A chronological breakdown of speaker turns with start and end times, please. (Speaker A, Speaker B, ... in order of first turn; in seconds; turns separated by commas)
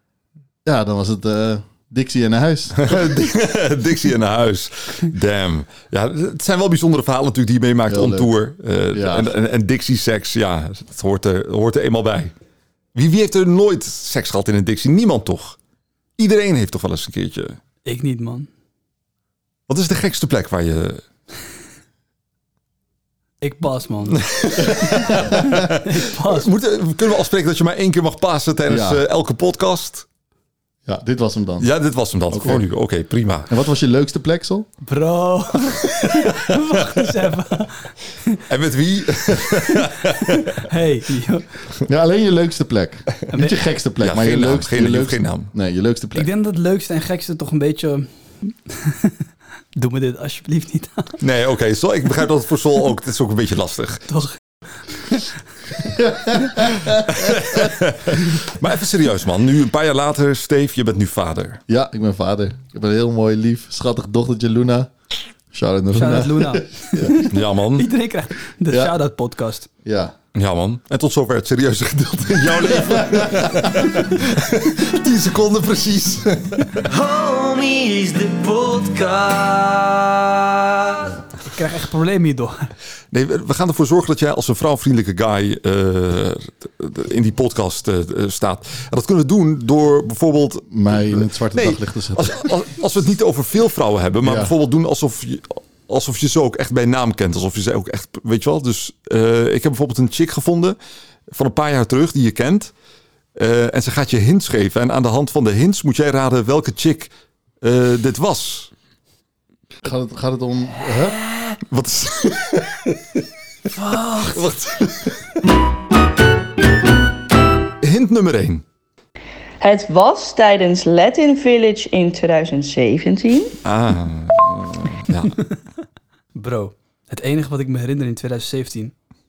Speaker A: 0.6-3.2, Speaker B: 2.8-12.3, Speaker A: 7.9-8.3, Speaker A: 8.9-9.3, Speaker B: 12.9-15.6, Speaker B: 16.2-17.6, Speaker C: 17.8-18.5, Speaker B: 19.7-21.0, Speaker C: 23.4-26.5, Speaker B: 24.1-30.0, Speaker A: 25.1-25.5, Speaker A: 28.7-29.0, Speaker A: 30.8-31.7, Speaker B: 31.6-33.5, Speaker A: 32.3-32.6, Speaker A: 33.5-34.7, Speaker C: 34.8-38.4, Speaker B: 38.5-40.6, Speaker C: 39.8-41.5, Speaker A: 41.9-46.3, Speaker C: 43.3-43.6, Speaker B: 44.0-45.5, Speaker C: 46.1-49.2, Speaker C: 49.7-51.2, Speaker B: 51.2-54.2, Speaker C: 54.1-54.4, Speaker C: 54.9-55.3, Speaker A: 55.8-57.7, Speaker B: 56.9-61.6, Speaker A: 61.7-64.9, Speaker A: 65.5-67.3, Speaker C: 65.9-69.7, Speaker B: 67.3-67.9, Speaker A: 68.7-68.9, Speaker A: 69.8-70.1, Speaker B: 70.3-76.8, Speaker A: 72.6-73.9, Speaker D: 76.8-81.2, Speaker C: 81.5-82.7, Speaker B: 83.1-100.8, Speaker A: 90.7-92.5, Speaker A: 94.2-94.5, Speaker B: 101.3-102.7, Speaker B: 103.3-107.1, Speaker B: 107.6-108.7, Speaker A: 109.8-111.2, Speaker B: 111.7-113.0, Speaker C: 113.7-114.4, Speaker B: 113.9-115.2, Speaker B: 117.8-118.6, Speaker E: 119.6-123.6, Speaker B: 123.6-125.3, Speaker C: 126.3-128.9